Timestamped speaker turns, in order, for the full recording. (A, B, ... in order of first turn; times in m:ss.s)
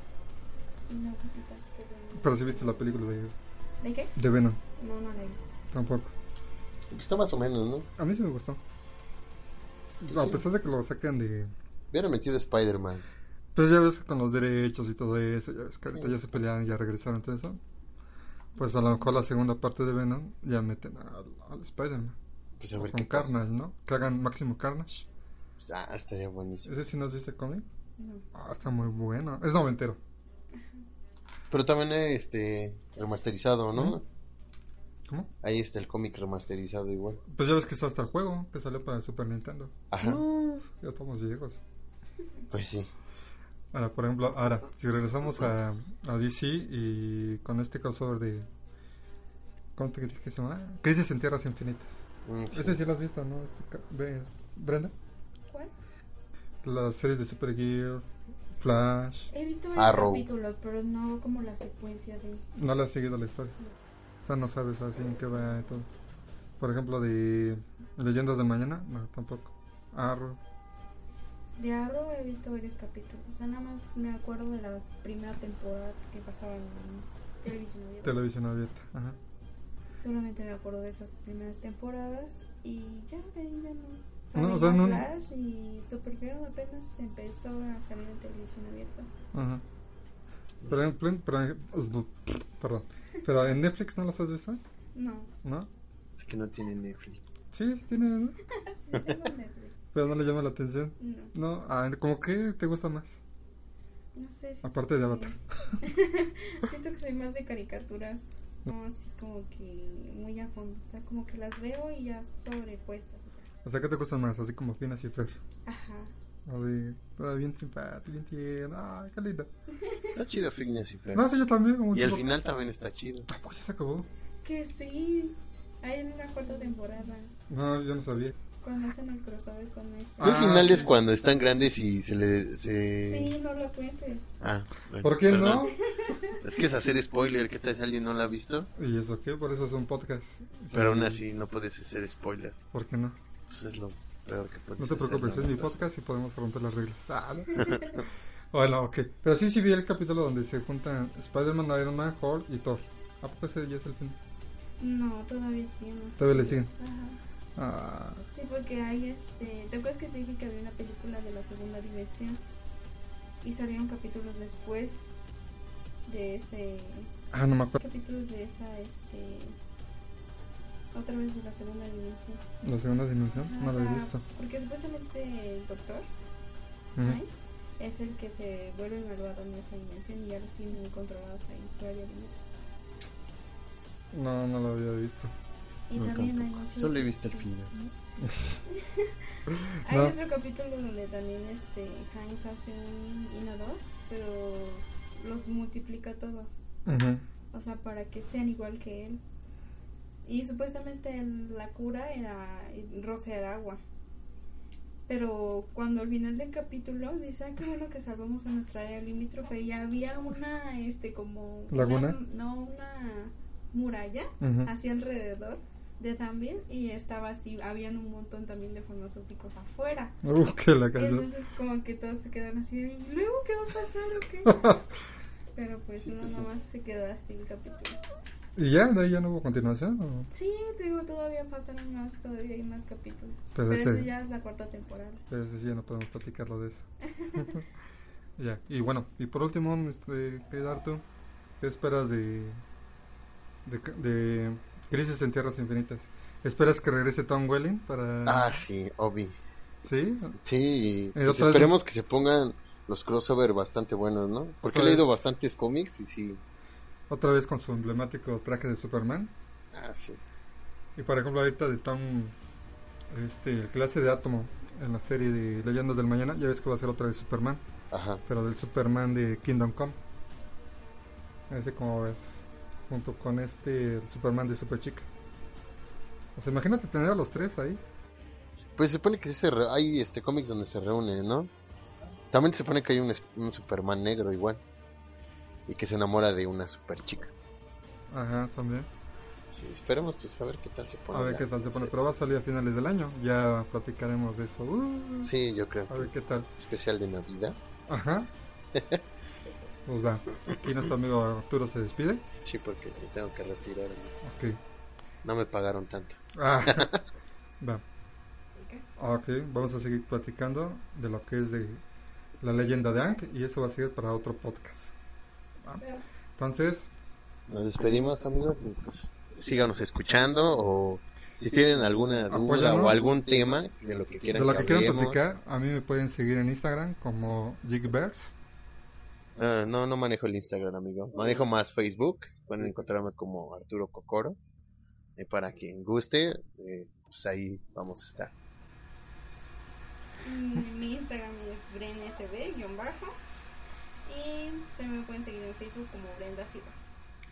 0:00.9-0:02.9 A
0:02.2-0:03.3 B
0:03.8-0:04.1 A
0:04.2-0:04.6 B
0:04.7-0:05.5 A
0:05.7-0:06.1 B
0:06.9-0:07.9 C
0:08.0-0:08.6 B
0:10.0-0:11.5 B
0:10.1-0:10.4 C
0:11.9-0:13.0 C
0:13.6-0:17.6 B
0:15.9-0:16.4 C
0:18.6-0:19.2 A
0:18.6-0:22.2 B
0:22.6-0:23.4 C
0:22.8-0:25.1 B
0:25.6-0:26.7 C
0:26.7-0:27.7 B
0:28.0-0:28.2 A
0:28.3-0:30.0 B
0:30.5-0:30.8 A
0:31.5-0:34.0 C
0:35.4-0:37.2 C
0:37.3-0:41.6 B
0:39.9-0:40.2 C
0:42.5-0:42.9 C
0:43.7-0:48.5 B
0:49.8-0:54.9 B
0:52.3-0:52.8 C
0:56.6-0:58.0 B
0:58.6-0:59.3 B
0:59.3-1:02.5 A
0:59.8-1:00.3 C
1:02.6-1:03.6 B
1:04.2-1:05.9 B
1:06.6-1:10.4 B
1:11.6-1:18.1 A
1:18.0-1:19.2 B
1:20.0-1:29.1 A
1:24.4-1:25.1 B
1:29.3-1:29.6 B
1:30.7-1:34.6 B
1:35.0-1:35.3 A
1:36.1-1:37.3 C
1:37.5-1:38.4 B
1:38.6-1:39.8 A
1:39.9-1:43.2 B
1:41.0-1:41.3 A
1:44.2-1:53.5 A
1:44.6-1:45.8 B
1:53.6-1:55.4 B
1:55.6-1:56.1 A
1:56.5-1:59.5 B
1:59.7-2:00.1 A
2:00.1-2:01.3 C
2:01.2-2:02.3 B
2:01.9-2:03.3 C
2:03.3-2:04.1 B
2:04.4-2:07.3 A
2:07.5-2:08.4 B
2:08.6-2:10.9 A
2:10.2-2:10.9 B
2:10.2-2:13.3 C
2:13.0-2:14.3 A
2:14.4-2:15.7 C
2:15.0-2:15.8 B
2:15.6-2:16.4 A
2:16.4-2:18.7 C
2:18.8-2:21.2 B
2:20.7-2:22.6 C
2:22.7-2:23.2 B
2:23.5-2:25.8 C
2:24.8-2:34.2 B
2:27.6-2:28.0 A
2:27.6-2:28.0 C
2:34.8-2:37.2 A
2:36.2-2:36.7 B
2:37.6-2:38.2 B
2:38.3-2:42.4 A
2:43.4-2:45.0 A
2:46.1-2:47.1 A
2:47.3-2:47.8 B
2:47.8-2:49.6 A
2:50.9-2:52.4 A
2:52.6-2:54.2 B
2:53.4-2:56.1 A
2:57.0-2:57.2 B
2:57.0-3:02.4 A
3:04.1-3:05.3 B
3:05.9-3:07.9 A
3:06.0-3:07.7 C
3:08.2-3:08.6 B
3:08.7-3:16.6 A
3:09.5-3:10.1 B
3:16.9-3:17.2 B
3:17.5-3:19.2 A
3:20.3-3:23.8 A
3:25.1-3:40.2 A
3:31.7-3:32.2 B
3:34.4-3:34.7 B
3:40.2-3:41.3 B
3:41.0-3:44.8 A
3:44.5-3:44.8 B
3:45.6-3:48.0 A
3:46.0-3:46.5 C
3:48.6-3:50.3 B
3:50.3-3:55.2 A
3:53.6-3:54.1 B
3:55.3-3:57.6 B
3:57.1-3:57.5 A
3:58.4-4:01.0 B
4:01.6-4:02.6 B
4:03.6-4:08.6 B
4:08.2-4:09.4 C
4:09.8-4:10.4 B
4:10.4-4:16.4 C
4:11.2-4:11.7 B
4:14.6-4:15.2 B
4:17.1-4:19.3 B
4:19.7-4:20.2 C
4:21.0-4:22.4 B
4:23.1-4:27.6 B
4:27.9-4:28.2 C
4:28.3-4:30.0 B
4:31.5-4:35.1 B
4:36.4-4:37.8 B
4:38.8-4:41.5 C
4:42.3-4:44.6 C
4:45.7-4:47.3 C
4:48.1-4:48.9 B
4:49.5-4:51.9 C
4:51.1-4:55.3 B
4:55.2-4:57.6 C
4:55.9-4:56.5 B
4:57.9-4:58.3 B
4:58.7-4:59.0 C
4:59.9-5:02.2 B
5:02.4-5:04.3 C
5:04.2-5:04.6 B
5:05.2-5:07.0 C
5:06.4-5:06.9 B
5:08.6-5:08.9 A
5:09.0-5:11.8 B
5:12.4-5:14.9 B
5:16.4-5:16.9 B
5:17.5-5:25.2 C
5:22.3-5:23.0 B
5:24.3-5:28.3 B
5:29.4-5:34.4 C
5:35.2-5:38.3 C
5:40.2-5:43.1 A
5:44.1-5:46.8 A